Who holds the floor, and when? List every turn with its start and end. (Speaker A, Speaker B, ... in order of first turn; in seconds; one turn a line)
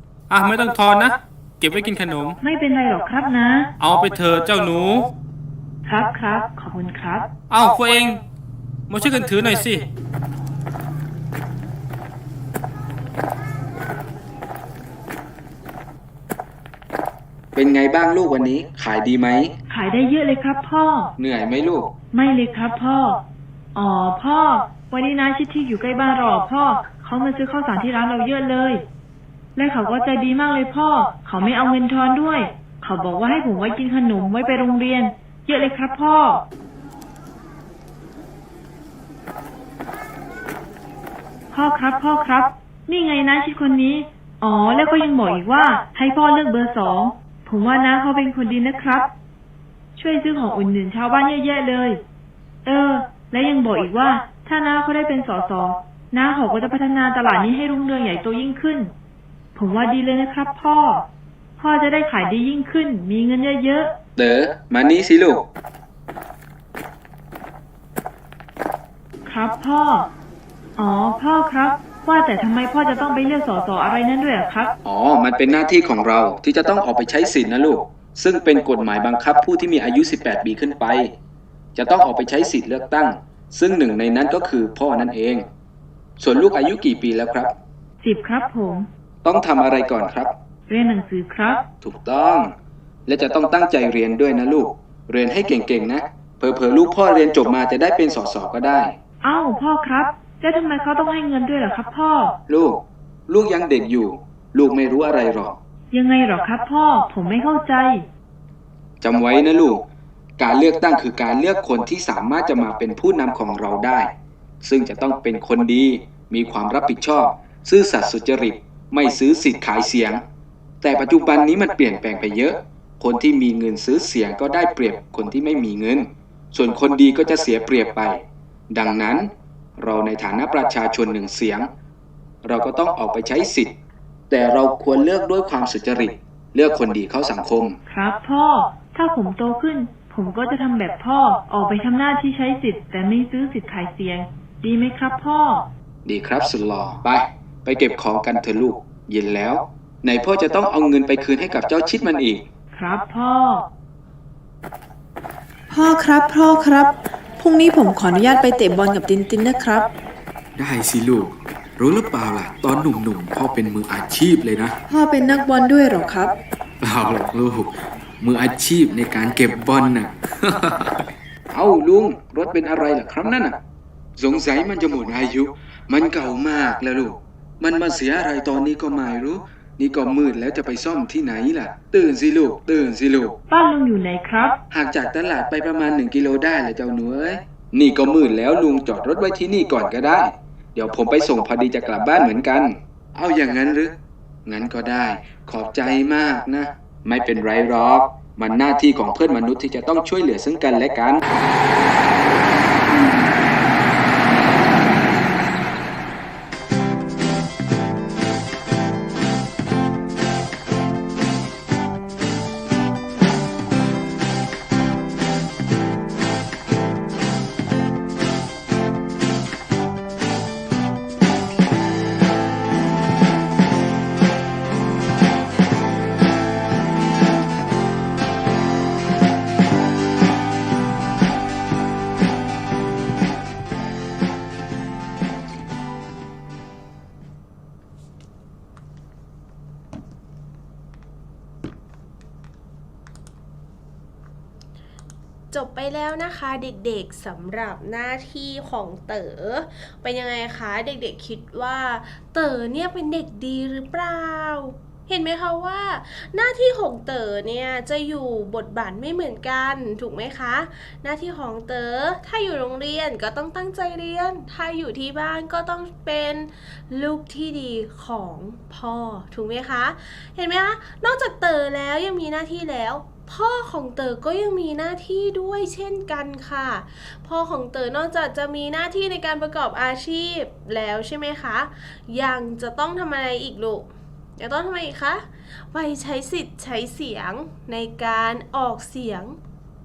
Speaker A: 0.3-2.4
Speaker B: 2.4-3.7
Speaker A: 3.8-5.1
Speaker B: 5.8-7.3
Speaker A: 7.5-8.2
Speaker A: 8.9-9.8
Speaker C: 17.5-19.5
Speaker B: 19.7-21.1
Speaker C: 21.2-21.9
Speaker B: 22.1-23.2
Speaker B: 23.7-28.8
Speaker B: 29.6-36.4
Speaker B: 41.5-49.1
Speaker B: 50.0-52.0
Speaker B: 52.6-58.9
Speaker B: 59.5-61.0
Speaker B: 61.6-63.9
Speaker C: 64.2-65.4
Speaker B: 69.2-70.1
Speaker B: 70.8-74.7
Speaker C: 74.8-81.1
Speaker C: 81.7-85.5
Speaker C: 86.2-87.5
Speaker B: 88.0-88.9
Speaker C: 89.2-90.3
Speaker B: 90.7-91.6
Speaker C: 91.8-92.5
Speaker C: 93.1-98.9
Speaker B: 99.2-102.3
Speaker C: 102.5-105.5
Speaker B: 105.9-108.0
Speaker C: 109.0-109.8
Speaker C: 110.4-120.2
Speaker C: 120.8-131.7
Speaker C: 132.4-133.7
Speaker C: 134.3-137.8
Speaker B: 137.9-145.7
Speaker C: 146.0-152.4
Speaker B: 152.7-153.7
Speaker D: 155.7-159.9
Speaker C: 160.6-164.8
Speaker D: 164.9-166.4
Speaker C: 166.8-173.6
Speaker C: 174.2-183.3
Speaker B: 183.5-184.6
Speaker C: 184.7-193.9
Speaker C: 194.4-201.2
Speaker E: 245.5-289.4